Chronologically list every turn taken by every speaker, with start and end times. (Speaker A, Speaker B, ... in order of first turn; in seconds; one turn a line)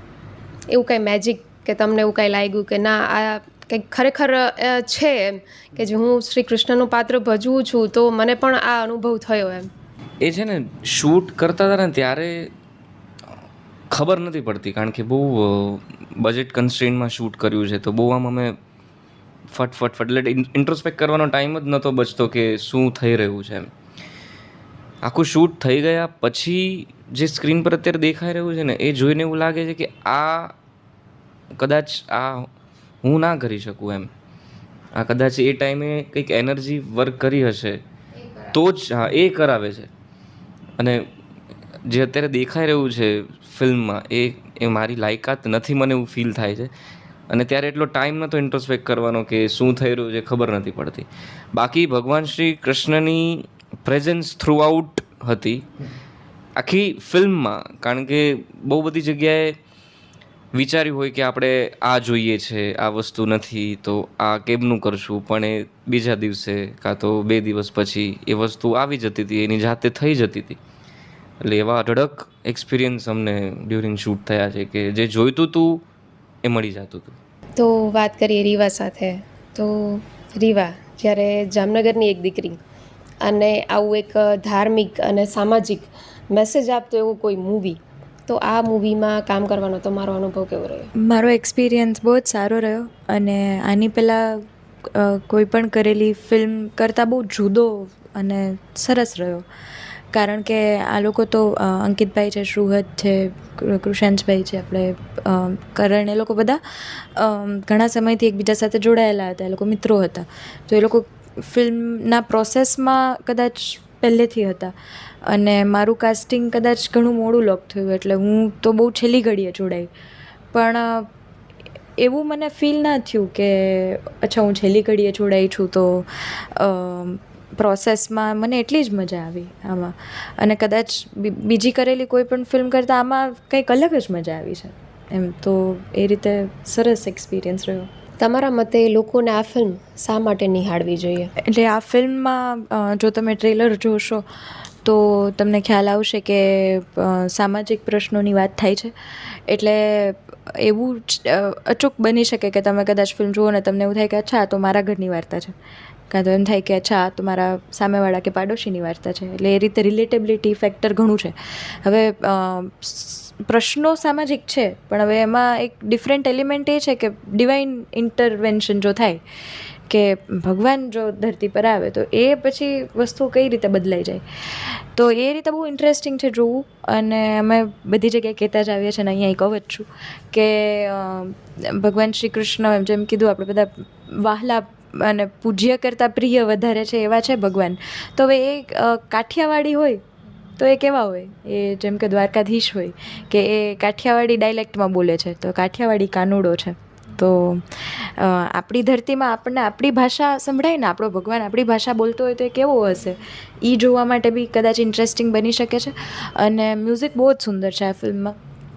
Speaker A: 0.7-9.7
Speaker B: 10.2-12.5
Speaker B: 13.9-18.5
Speaker B: 19.5-23.7
Speaker B: 25.0-30.5
Speaker B: 31.6-32.5
Speaker B: 33.0-34.1
Speaker B: 35.0-37.8
Speaker A: 38.2-38.5
Speaker B: 38.5-39.9
Speaker B: 40.8-41.0
Speaker B: 41.9-46.7
Speaker B: 47.3-55.6
Speaker B: 56.6-59.5
Speaker B: 60.5-70.6
Speaker B: 71.4-75.8
Speaker B: 76.4-77.2
Speaker A: 77.6-82.6
Speaker A: 83.2-90.9
Speaker C: 91.0-94.4
Speaker C: 95.0-99.4
Speaker C: 100.1-114.7
Speaker C: 115.2-119.9
Speaker C: 120.5-121.1
Speaker C: 122.0-137.9
Speaker A: 138.2-141.3
Speaker C: 141.5-144.2
Speaker C: 144.8-155.5
Speaker C: 156.1-169.2
Speaker C: 169.9-190.0
Speaker C: 190.6-208.3